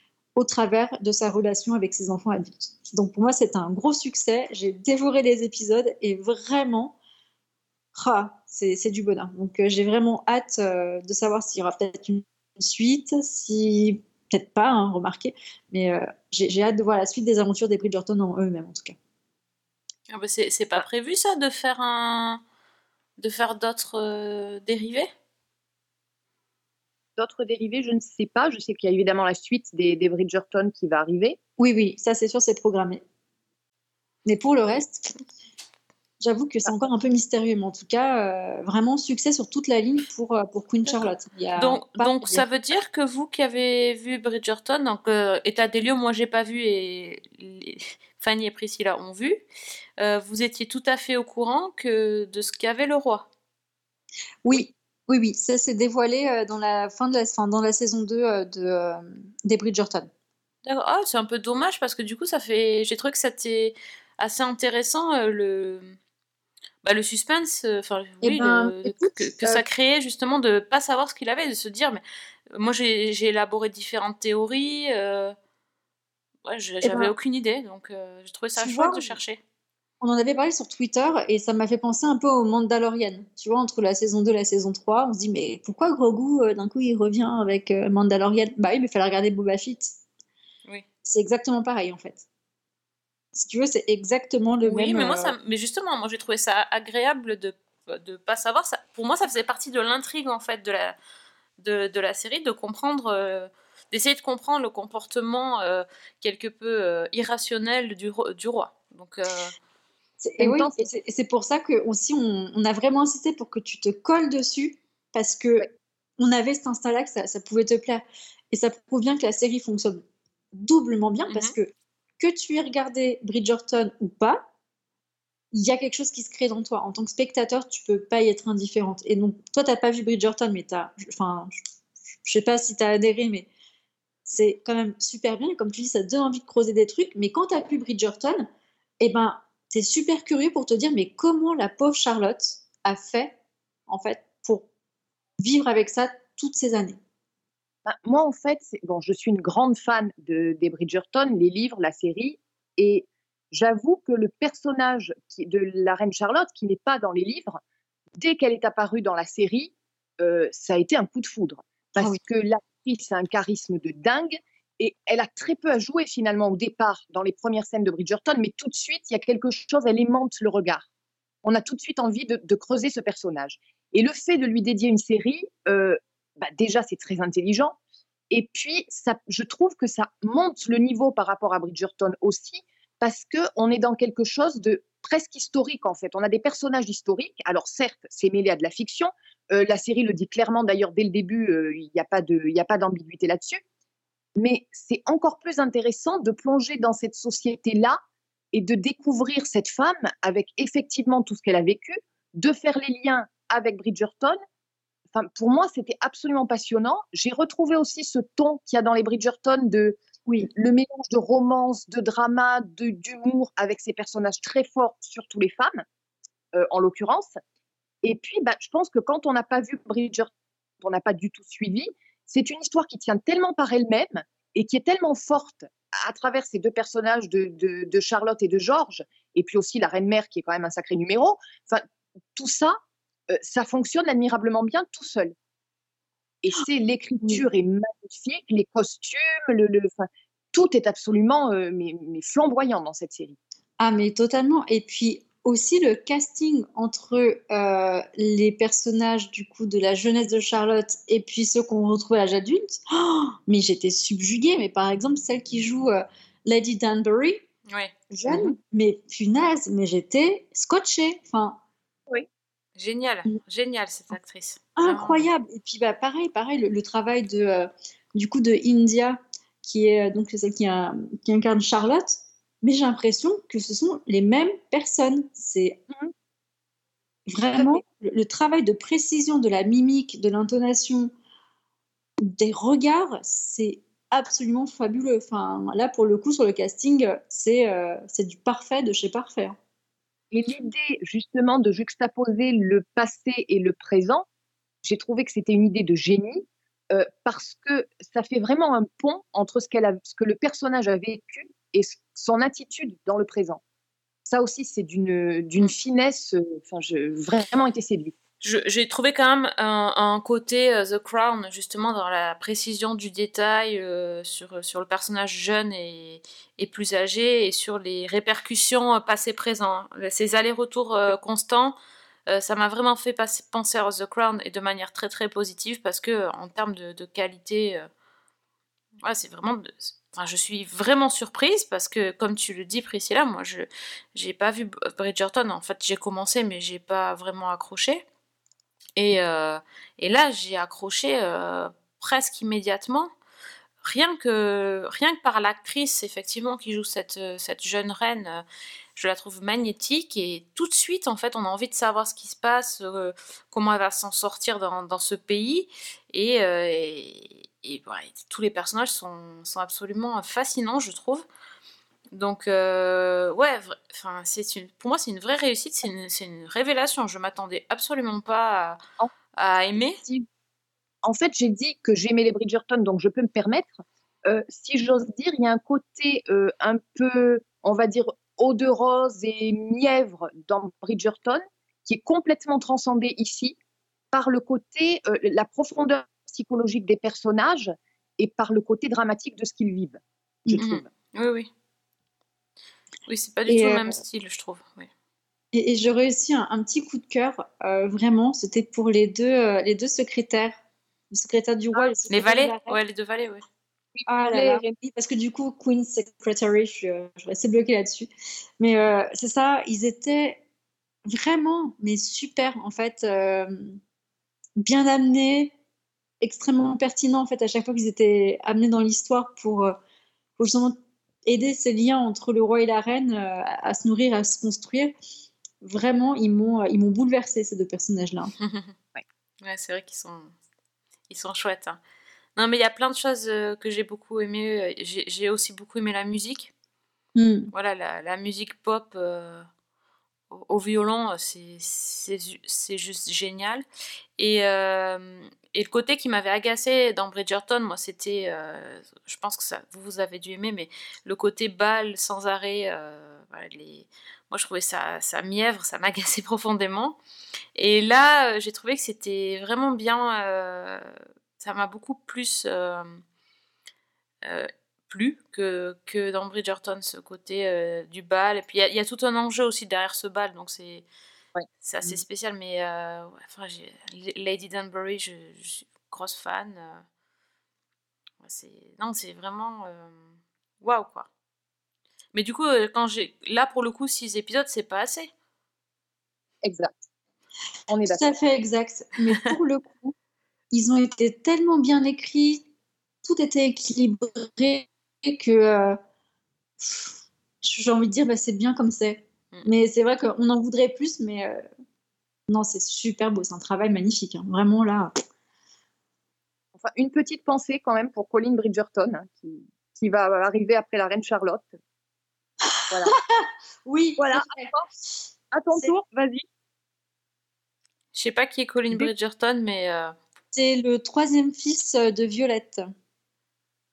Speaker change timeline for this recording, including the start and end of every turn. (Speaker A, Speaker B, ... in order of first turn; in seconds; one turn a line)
Speaker A: 0.4-7.0
Speaker A: 8.0-19.0
Speaker B: 20.1-22.4
Speaker B: 23.2-25.1
Speaker C: 27.2-31.4
Speaker A: 31.6-33.0
Speaker A: 34.3-35.1
Speaker A: 36.2-42.5
Speaker B: 40.9-49.4
Speaker B: 50.0-53.3
Speaker A: 54.5-60.1
Speaker B: 60.6-66.0
Speaker B: 66.8-72.0
Speaker A: 68.2-69.7
Speaker B: 72.5-75.3
Speaker B: 76.4-79.4
Speaker A: 76.8-77.1
Speaker A: 78.6-79.2
Speaker A: 80.0-89.9
Speaker A: 91.0-92.2
Speaker A: 93.3-95.3
Speaker B: 94.7-101.0
Speaker B: 101.6-109.6
Speaker A: 110.2-115.7
Speaker C: 110.4-110.9
Speaker A: 116.2-120.0
Speaker A: 120.5-124.5
Speaker B: 121.3-121.5
Speaker A: 125.5-131.6
Speaker A: 132.2-133.5
Speaker A: 134.3-138.5
Speaker A: 139.0-143.4
Speaker A: 143.9-144.7
Speaker A: 145.4-147.0
Speaker C: 147.9-157.6
Speaker C: 158.2-170.9
Speaker C: 171.4-177.8
Speaker C: 178.3-193.6
Speaker C: 194.4-198.0
Speaker C: 198.5-204.4
Speaker C: 205.1-215.8
Speaker C: 216.5-217.4
Speaker C: 218.0-220.3
Speaker C: 220.8-231.8
Speaker C: 232.4-232.8
Speaker C: 233.3-235.3
Speaker C: 236.4-243.4
Speaker A: 243.8-257.4
Speaker A: 258.1-261.6
Speaker C: 258.3-258.6
Speaker B: 262.8-265.3
Speaker A: 264.8-275.8
Speaker A: 277.3-281.1
Speaker C: 277.5-277.8
Speaker A: 282.2-289.6
Speaker C: 290.3-294.3
Speaker C: 294.8-303.6
Speaker C: 304.3-308.1
Speaker B: 308.4-321.8
Speaker B: 322.3-327.9
Speaker B: 329.0-338.1
Speaker B: 339.0-343.1
Speaker B: 343.8-348.4
Speaker B: 349.0-361.3
Speaker B: 362.1-368.8
Speaker B: 369.4-370.0
Speaker C: 369.9-370.3
Speaker C: 371.0-383.6
Speaker C: 384.1-390.9
Speaker B: 390.6-391.5
Speaker B: 393.1-394.9
Speaker A: 393.5-394.0
Speaker A: 395.5-400.6
Speaker A: 401.1-402.8
Speaker C: 401.7-402.0
Speaker B: 402.1-403.4
Speaker C: 404.0-404.7
Speaker A: 404.1-410.4
Speaker A: 411.1-413.8
Speaker A: 414.6-415.5
Speaker A: 416.2-419.8
Speaker A: 420.4-424.9
Speaker A: 425.6-428.3
Speaker B: 428.4-428.7
Speaker B: 429.4-430.3
Speaker B: 431.1-431.8
Speaker B: 432.4-436.5
Speaker A: 437.1-437.5
Speaker B: 437.5-439.5
Speaker B: 440.3-443.6
Speaker B: 444.2-457.0
Speaker B: 457.6-463.0
Speaker B: 464.2-470.9
Speaker C: 471.4-472.0
Speaker B: 471.6-476.8
Speaker B: 478.2-480.1
Speaker B: 480.6-481.1
Speaker B: 482.1-485.1
Speaker C: 486.4-486.7
Speaker C: 487.7-488.1
Speaker A: 487.9-489.9
Speaker A: 490.5-492.4
Speaker A: 493.0-495.8
Speaker A: 496.6-501.4
Speaker A: 502.3-504.9
Speaker C: 506.6-511.5
Speaker A: 512.5-514.5
Speaker C: 512.7-513.0
Speaker C: 514.0-514.7
Speaker C: 515.3-516.2
Speaker B: 517.9-520.0
Speaker A: 520.3-522.7